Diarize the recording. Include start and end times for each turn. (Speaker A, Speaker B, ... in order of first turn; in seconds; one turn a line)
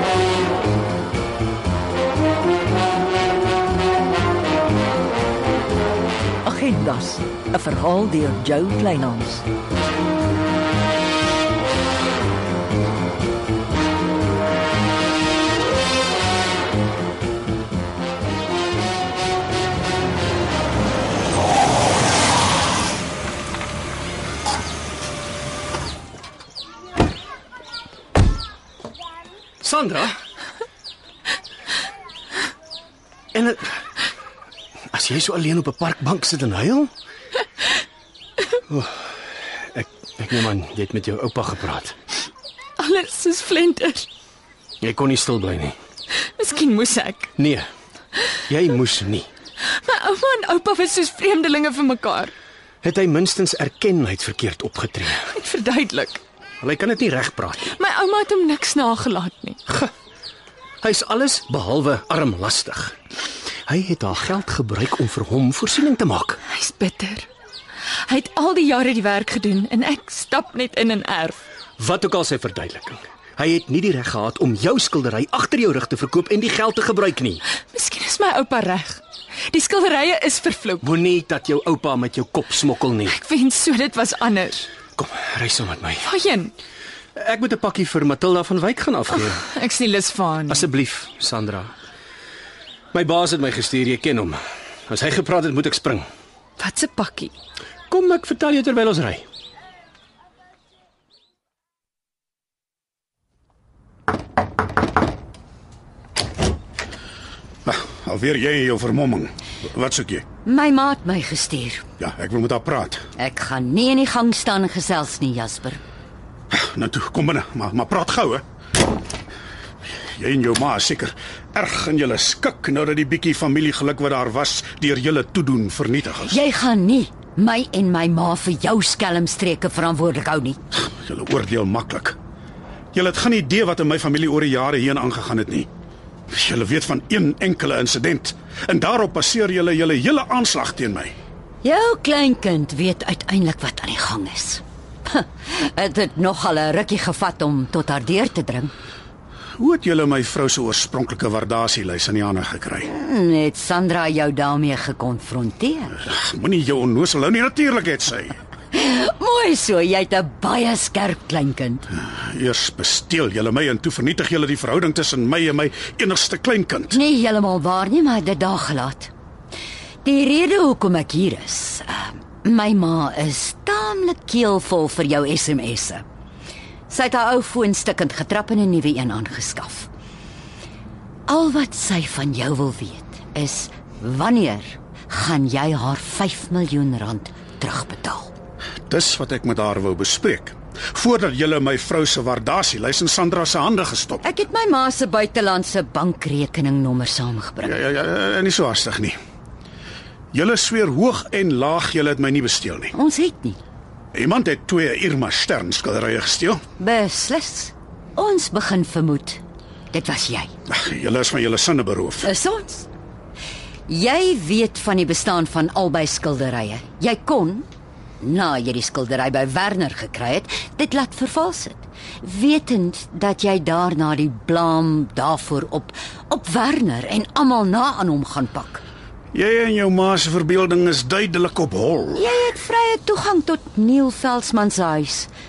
Speaker A: 6.4-9.4
Speaker B: 29.6-30.1
Speaker B: 33.3-33.6
Speaker B: 34.9-36.9
Speaker B: 39.7-41.9
Speaker C: 42.8-44.1
Speaker B: 44.8-45.8
Speaker C: 46.4-47.3
Speaker B: 47.4-47.7
Speaker B: 48.5-49.3
Speaker C: 49.7-52.3
Speaker B: 52.8-55.2
Speaker C: 55.3-56.2
Speaker B: 56.6-57.7
Speaker C: 57.7-59.6
Speaker B: 60.8-62.9
Speaker B: 63.7-66.4
Speaker C: 66.5-67.3
Speaker C: 68.0-71.4
Speaker B: 71.8-77.4
Speaker C: 77.7-80.9
Speaker B: 80.8-83.2
Speaker C: 83.1-84.7
Speaker B: 84.9-86.1
Speaker C: 86.0-86.5
Speaker B: 87.2-89.5
Speaker C: 89.5-90.7
Speaker B: 90.5-91.7
Speaker B: 92.9-96.0
Speaker C: 96.6-97.3
Speaker B: 97.9-99.2
Speaker D: 107.6-110.2
Speaker E: 110.4-111.8
Speaker D: 112.0-113.0
Speaker E: 113.2-115.8
Speaker D: 116.5-118.4
Speaker D: 120.1-126.4
Speaker E: 126.3-130.6
Speaker D: 130.8-132.2
Speaker D: 132.9-135.7
Speaker D: 136.3-141.1
Speaker E: 141.6-148.7
Speaker D: 149.6-152.9
Speaker E: 152.8-155.9
Speaker D: 156.1-158.4
Speaker E: 158.7-161.8
Speaker D: 162.0-167.0
Speaker E: 166.9-169.1
Speaker E: 170.0-176.0
Speaker E: 176.9-179.9
Speaker E: 181.3-188.3
Speaker D: 188.9-194.2
Speaker E: 194.2-197.8
Speaker D: 197.6-199.2
Speaker D: 200.3-202.9
Speaker E: 202.9-203.6
Speaker D: 204.1-206.6
Speaker E: 206.8-210.5
Speaker D: 210.7-212.3
Speaker E: 212.2-212.9
Speaker E: 213.9-217.7
Speaker E: 218.2-228.8
Speaker D: 229.3-232.2
Speaker E: 232.1-235.3